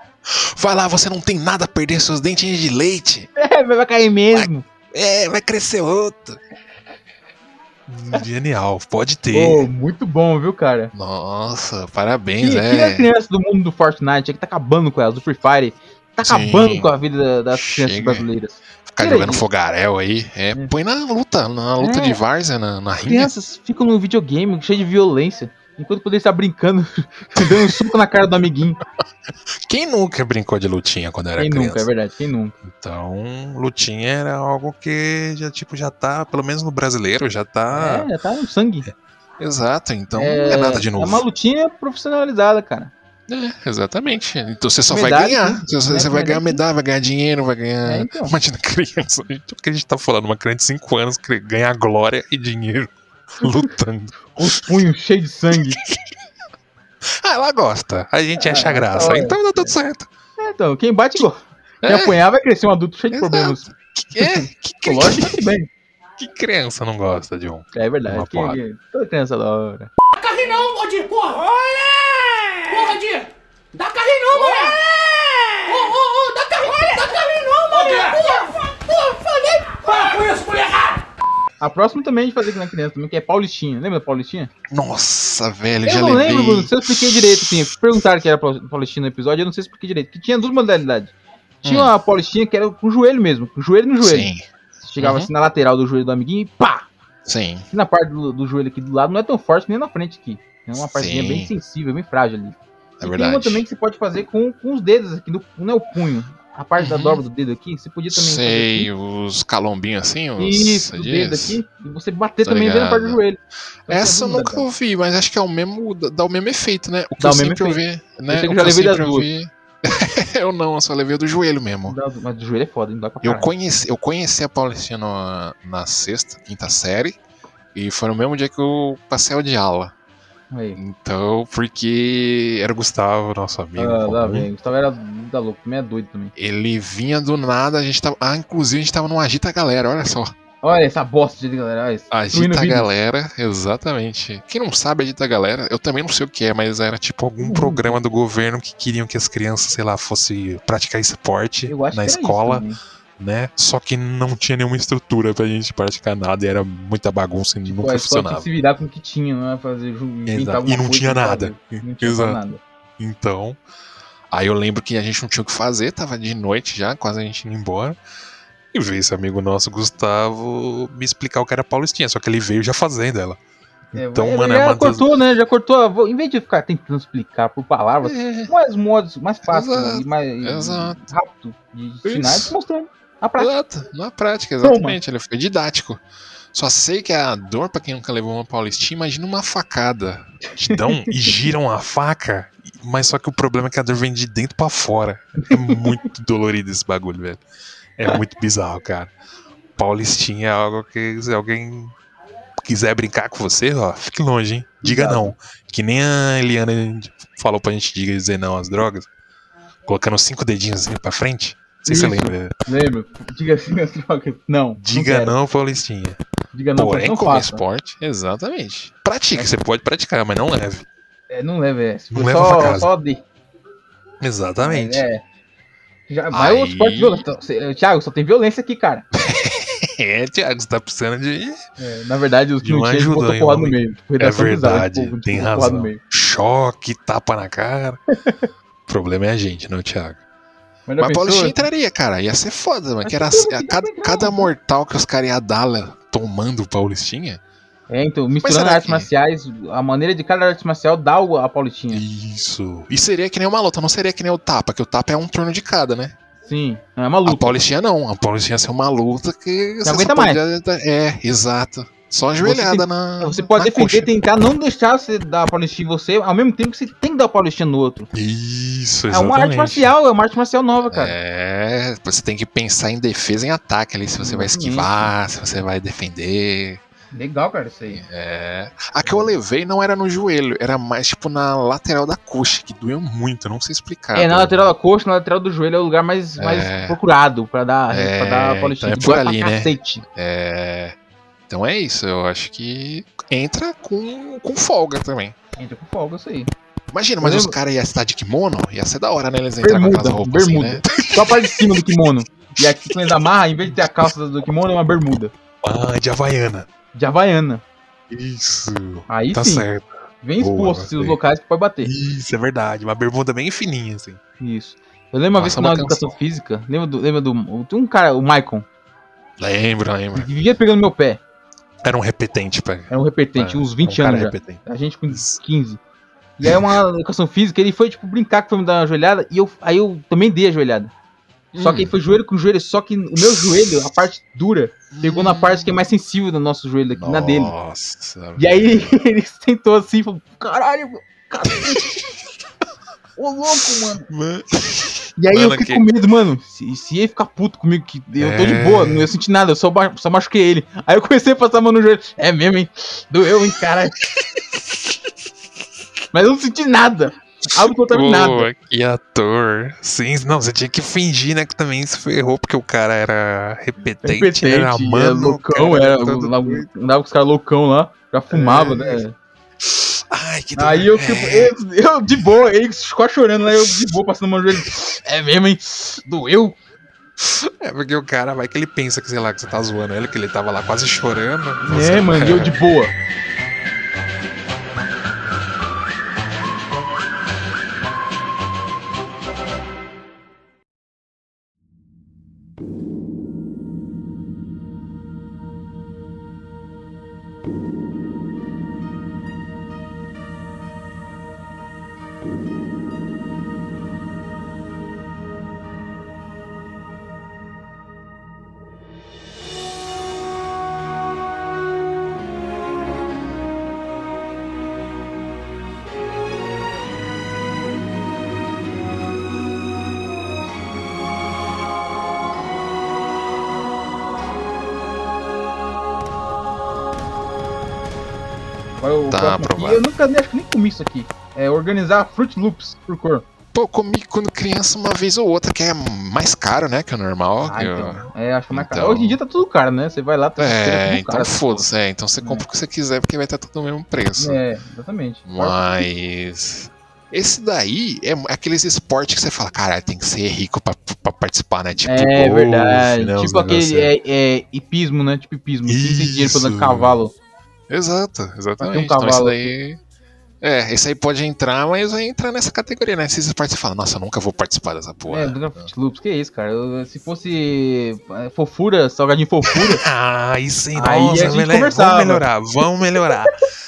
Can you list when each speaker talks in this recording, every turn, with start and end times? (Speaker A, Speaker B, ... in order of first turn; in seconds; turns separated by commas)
Speaker A: 0.3-3.3, Speaker B: 3.4-4.7, Speaker A: 4.3-6.4, Speaker A: 7.9-9.7, Speaker B: 9.3-10.9, Speaker A: 10.9-13.1, Speaker B: 12.4-19.4, Speaker A: 16.2-16.9, Speaker A: 17.5-18.3, Speaker A: 18.9-23.3, Speaker B: 21.8-22.2, Speaker B: 23.1-28.8, Speaker A: 27.4-27.8, Speaker A: 29.6-31.9, Speaker B: 31.4-32.6, Speaker A: 32.6-38.1, Speaker B: 37.7-38.9, Speaker A: 39.4-41.2, Speaker B: 40.1-42.9, Speaker A: 43.3-54.5, Speaker B: 44.9-46.6, Speaker B: 47.8-48.4, Speaker B: 54.4-55.8, Speaker A: 57.0-60.1, Speaker B: 58.4-59.8, Speaker B: 60.4-63.7, Speaker A: 61.8-62.2, Speaker A: 63.1-65.5, Speaker B: 64.2-65.7, Speaker A: 66.2-68.6, Speaker B: 67.7-69.9, Speaker C: 70.2-81.0, Speaker B: 81.6-84.5, Speaker A: 84.7-87.4, Speaker B: 85.8-94.3, Speaker A: 91.6-91.9, Speaker A: 94.0-94.5, Speaker B: 94.8-96.9, Speaker A: 95.0-95.3, Speaker A: 97.2-97.7, Speaker B: 97.7-108.9, Speaker A: 100.9-101.5, Speaker A: 103.0-103.6, Speaker A: 106.8-107.2, Speaker A: 108.1-111.6, Speaker B: 110.4-114.7, Speaker A: 112.4-113.2, Speaker A: 113.9-122.0, Speaker B: 117.2-119.3, Speaker B: 121.9-123.5, Speaker A: 123.2-127.2, Speaker A: 127.7-129.9, Speaker B: 130.5-130.8, Speaker A: 130.8-134.5, Speaker B: 133.8-136.3, Speaker A: 136.4-140.3, Speaker B: 140.6-142.9, Speaker A: 142.1-152.7, Speaker B: 147.4-148.0, Speaker B: 151.7-152.8, Speaker A: 153.2-158.5, Speaker B: 157.7-162.6, Speaker A: 160.3-162.4, Speaker A: 163.0-163.6, Speaker A: 164.3-168.0, Speaker A: 168.7-173.4, Speaker A: 173.9-175.1, Speaker B: 173.9-183.5, Speaker A: 178.0-178.5, Speaker A: 179.5-181.0, Speaker A: 182.1-182.6, Speaker A: 183.4-186.0, Speaker B: 184.6-185.0, Speaker A: 186.5-197.4, Speaker B: 190.6-191.4, Speaker B: 195.4-196.0, Speaker A: 198.0-199.1, Speaker A: 199.8-201.9, Speaker A: 202.6-209.1, Speaker B: 204.8-205.3, Speaker A: 209.9-212.5, Speaker B: 211.9-215.4, Speaker A: 214.8-216.2, Speaker B: 216.5-217.6, Speaker A: 216.8-220.9, Speaker B: 221.3-223.2, Speaker A: 222.1-222.9, Speaker A: 224.2-225.1, Speaker B: 224.6-225.2, Speaker B: 226.1-229.1, Speaker A: 226.3-227.2, Speaker A: 229.2-231.6, Speaker B: 231.8-236.0, Speaker A: 232.6-238.0, Speaker A: 238.9-240.2, Speaker B: 240.9-241.7, Speaker A: 241.0-247.4, Speaker B: 243.1-244.5, Speaker B: 247.9-252.0, Speaker A: 248.4-249.1, Speaker A: 251.9-256.1, Speaker B: 256.5-257.6, Speaker A: 257.2-264.1, Speaker B: 259.8-260.4, Speaker B: 262.4-268.1, Speaker A: 268.1-269.9, Speaker B: 269.1-271.2, Speaker A: 270.9-276.8, Speaker B: 274.2-275.1, Speaker B: 277.1-278.0, Speaker A: 277.9-284.7, Speaker B: 284.1-290.0, Speaker A: 286.4-287.0, Speaker A: 287.9-291.0, Speaker A: 291.5-295.4, Speaker B: 295.6-296.5, Speaker A: 296.9-301.8, Speaker B: 297.2-297.6, Speaker B: 299.6-305.3, Speaker A: 305.6-306.7, Speaker B: 306.9-307.6, Speaker A: 308.1-309.9, Speaker B: 309.1-309.7, Speaker B: 310.2-311.9, Speaker A: 310.4-311.2, Speaker A: 311.8-314.2, Speaker B: 314.4-318.7, Speaker A: 315.3-316.1, Speaker A: 319.4-320.3, Speaker B: 320.1-321.2, Speaker A: 321.8-324.6, Speaker B: 322.9-325.8, Speaker A: 325.1-325.4, Speaker B: 326.4-330.9, Speaker A: 326.4-326.7, Speaker A: 331.5-331.9, Speaker B: 331.6-337.5, Speaker A: 334.9-335.8, Speaker A: 337.0-339.0, Speaker B: 338.4-342.0, Speaker A: 341.6-342.1, Speaker B: 343.2-344.1, Speaker A: 344.1-345.9, Speaker B: 345.2-354.0, Speaker A: 348.2-349.1, Speaker A: 354.2-354.5, Speaker B: 356.1-358.5, Speaker A: 357.5-366.7, Speaker B: 364.0-369.1, Speaker A: 368.3-369.0, Speaker A: 369.6-371.5, Speaker B: 370.6-376.6, Speaker A: 377.2-382.6, Speaker B: 381.6-382.9, Speaker B: 428.8-433.2, Speaker A: 429.1-429.9, Speaker A: 433.5-439.2, Speaker B: 437.4-441.7, Speaker A: 440.4-444.4, Speaker B: 444.2-445.9, Speaker A: 445.3-453.9, Speaker B: 451.9-457.1, Speaker A: 455.7-457.0, Speaker A: 457.7-459.8, Speaker B: 458.6-459.5, Speaker A: 460.4-465.7, Speaker B: 465.1-469.8, Speaker A: 469.5-473.4, Speaker B: 470.8-472.3